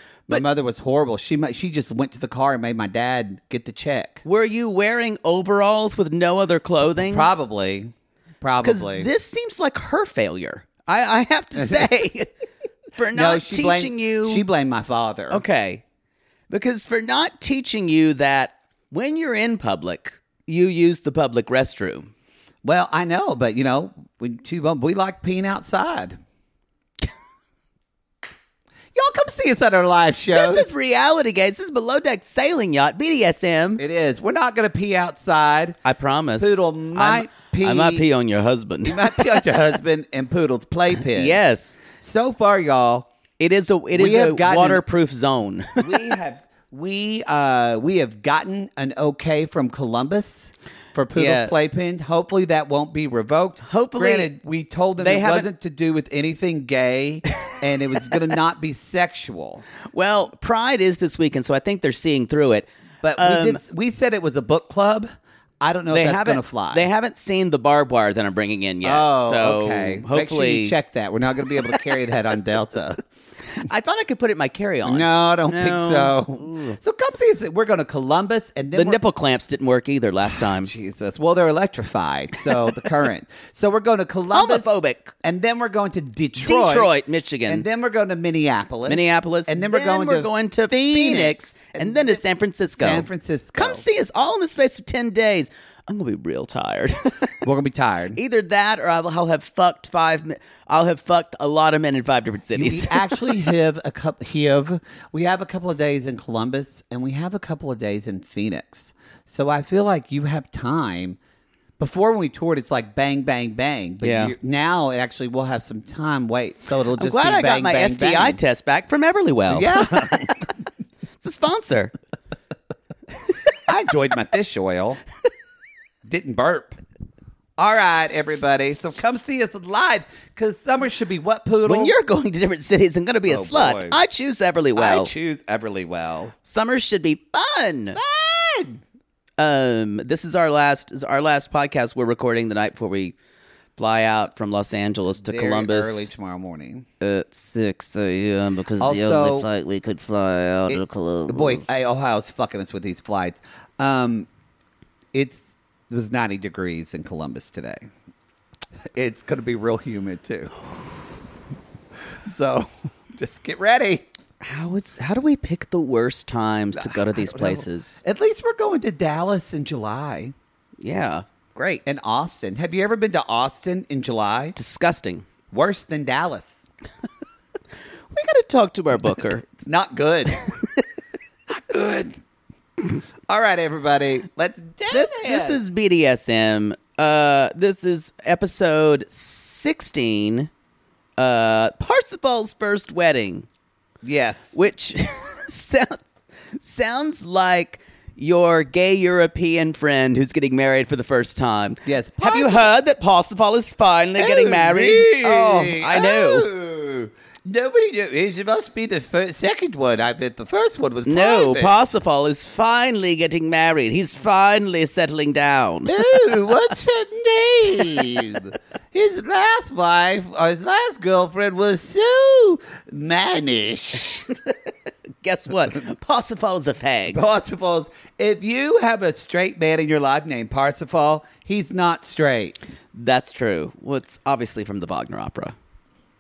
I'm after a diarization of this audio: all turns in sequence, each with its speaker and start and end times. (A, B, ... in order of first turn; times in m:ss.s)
0:00.3-0:04.2 A
0:04.2-0:07.3 B
0:07.0-0:09.1 A
0:08.6-0:12.3 B
0:11.6-0:11.9 A
0:13.0-0:14.5 B
0:13.1-0:15.4 A
0:15.3-0:15.8 B
0:16.5-0:22.1 B
0:22.6-0:26.2 A
0:28.9-0:30.7 A
0:30.3-0:33.8 B
0:33.8-0:35.8 A
0:35.8-0:39.4 B
0:36.4-0:38.1 A
0:38.8-0:41.4 A
0:40.9-0:41.8 B
0:41.9-0:43.1 A
0:43.4-0:46.0 B
0:43.9-0:44.8 A
0:45.8-0:59.6 A
0:51.2-0:51.6 B
0:53.6-0:54.3 B
0:55.0-0:55.5 B
0:59.9-1:03.6 B
1:03.0-1:06.9 A
1:05.9-1:10.8 B
1:08.8-1:13.0 A
1:13.6-1:16.8 B
1:14.8-1:19.0 A
1:18.7-1:20.7 B
1:20.6-1:26.9 A
1:24.3-1:25.1 B
1:26.4-1:27.7 B
1:27.5-1:32.2 A
1:28.9-1:37.4 B
1:32.8-1:33.8 A
1:37.4-1:38.2 A
1:38.2-1:43.3 B
1:42.5-1:51.2 A
1:51.8-1:58.4 A
1:54.0-1:54.3 B
1:57.0-2:00.1 B
1:59.5-2:00.4 A
2:01.2-2:01.9 B
2:03.5-2:05.0 A
2:06.0-2:06.8 A
2:07.6-2:12.0 A
2:11.7-2:15.1 B
2:13.3-2:14.0 A
2:14.8-2:16.3 A
2:16.4-2:18.0 B
2:18.0-2:18.8 A
2:19.4-2:23.2 B
2:23.8-2:26.1 B
2:25.2-2:26.9 A
2:27.0-2:31.7 B
2:28.8-2:29.5 A
2:30.7-2:34.3 A
2:35.1-2:37.9 A
2:38.9-2:40.5 A
2:42.2-2:44.1 A
2:44.4-2:48.0 B
2:46.8-2:50.3 A
2:50.8-2:51.9 B
2:51.9-2:54.6 A
2:54.6-2:55.2 B
2:55.5-2:56.7 A
2:58.1-2:59.5 B
2:59.6-3:00.5 A
3:01.5-3:02.2 A
3:03.3-3:05.6 A
3:04.9-3:10.5 B
3:11.2-3:13.5 B
3:14.0-3:14.6 A
3:14.5-3:26.5 B
3:21.8-3:22.7 A
3:24.2-3:31.8 A
3:31.0-3:35.9 B
3:35.9-3:44.3 A
3:45.2-3:47.2 B
3:47.1-3:52.6 A
3:52.9-3:55.6 B